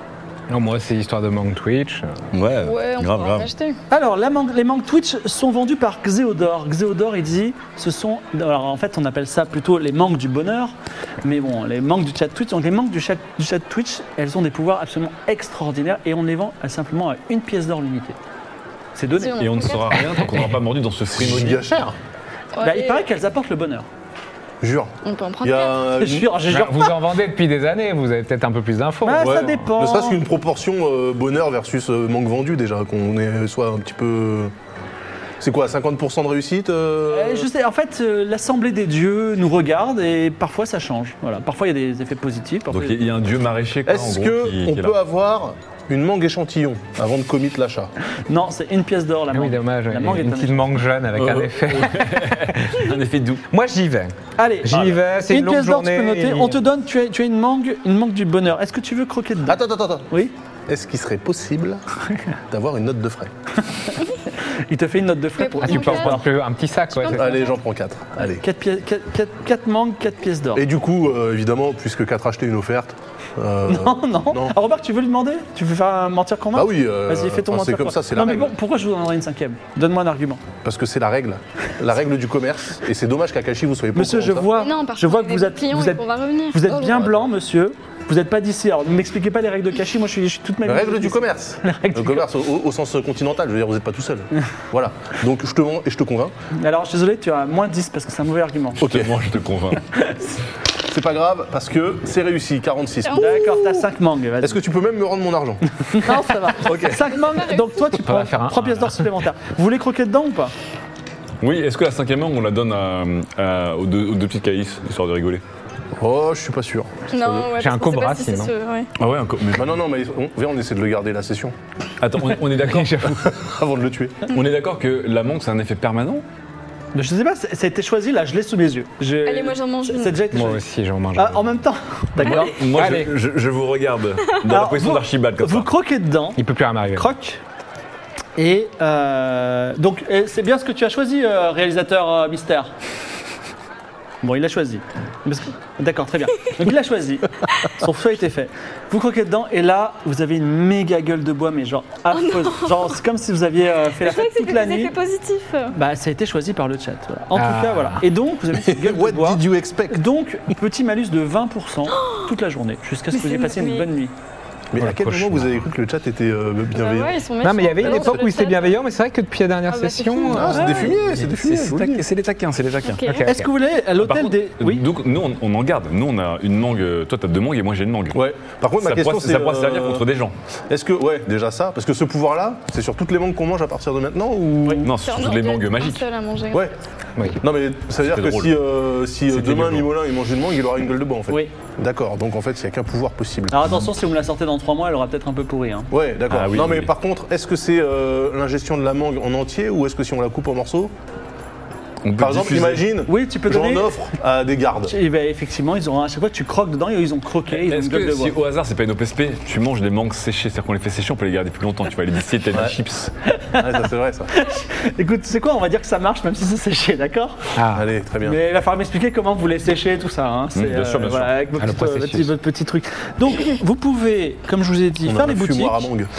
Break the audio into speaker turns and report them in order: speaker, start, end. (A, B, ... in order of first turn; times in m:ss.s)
0:00.5-0:02.2 A
0:02.3-0:03.5 B
0:02.6-0:03.8 C
0:03.9-0:18.2 D
0:19.0-0:19.4 D
0:19.2-0:20.1 C
0:19.4-0:21.7 B
0:21.1-0:22.0 E
0:22.6-0:23.1 C
0:22.6-0:23.9 D
0:24.6-0:26.4 E
0:25.0-0:26.0 C
0:26.0-0:26.9 D
0:26.5-0:29.6 A
0:29.0-0:30.2 D
0:29.2-0:34.5 E
0:35.4-0:37.5 E
0:37.1-0:43.0 D
0:42.7-0:45.0 B
0:43.9-0:47.9 E
0:48.3-0:50.7 D
0:49.3-0:52.8 A
0:51.2-0:53.4 B
0:53.5-0:56.6 A
0:54.4-1:00.3 D
0:54.7-0:55.0 B
0:59.5-1:00.1 E
1:00.7-1:01.8 E
1:02.5-1:03.3 E
1:04.7-1:06.3 D
1:05.4-1:06.2 C
1:05.6-1:07.4 A
1:07.0-1:07.4 C
1:07.1-1:08.4 E
1:08.4-1:10.6 D
1:10.6-1:14.6 E
1:13.7-1:20.4 D
1:16.5-1:18.6 E
1:20.6-1:24.5 E
1:24.0-1:32.3 D
1:24.6-1:27.1 C
1:30.6-1:36.3 E
1:36.5-1:38.8 D
1:38.8-1:39.1 E
1:38.8-1:39.9 B
1:40.9-1:43.8 E
1:43.1-1:44.6 D
1:44.4-1:46.1 E
1:45.9-1:50.5 D
1:47.4-1:47.6 C
1:47.9-1:49.1 A
1:51.4-1:55.4 B
1:56.0-1:57.0 E
1:57.1-1:58.9 C
1:57.4-1:58.5 A
1:59.0-1:59.8 B
1:59.5-2:01.5 E
2:02.0-2:03.2 B
2:02.6-2:03.4 A
2:03.2-2:04.2 E
2:04.3-2:06.2 B
2:07.0-2:10.6 D
2:09.3-2:10.2 C
2:10.3-2:11.5 A
2:11.2-2:12.6 D
2:12.2-2:15.7 B
2:12.7-2:13.1 A
2:14.4-2:16.4 D
2:16.4-2:17.1 A
2:16.9-2:17.4 D
2:18.4-2:22.7 D
2:24.2-2:34.9 D
2:32.1-2:32.9 C
2:34.0-2:35.8 C
2:35.7-2:44.1 D
2:37.3-2:38.1 A
2:38.5-2:40.0 E
2:43.1-2:43.9 C
2:44.7-2:47.2 E
2:44.8-2:45.6 A
2:46.7-2:48.8 C
2:47.4-2:50.9 A
2:47.8-2:48.2 E
2:49.7-2:50.9 C
2:50.3-2:52.0 E
2:50.9-2:53.0 B
2:52.9-2:53.2 C
2:53.1-2:53.5 A
2:53.2-2:54.8 D
2:54.0-2:58.2 B
2:58.1-3:00.0 E
2:58.8-3:00.4 B
3:00.7-3:04.9 E
3:04.8-3:06.0 B
3:05.0-3:06.7 C
3:07.4-3:13.8 E
3:08.0-3:08.6 B
3:09.3-3:09.9 B
3:13.5-3:15.9 D
3:15.9-3:20.9 E
3:16.3-3:16.9 B
3:22.0-3:22.9 B
3:22.2-3:25.0 E
3:23.1-3:24.0 D
3:24.9-3:28.4 D
3:27.5-3:33.1 B
3:33.3-3:33.8 D
3:33.6-3:34.3 E
3:34.3-3:37.5 D
3:37.6-3:37.9 A
3:37.7-3:38.4 E
3:38.2-3:45.9 D
3:40.6-3:42.0 B
3:41.8-3:42.2 A
3:45.0-3:46.1 E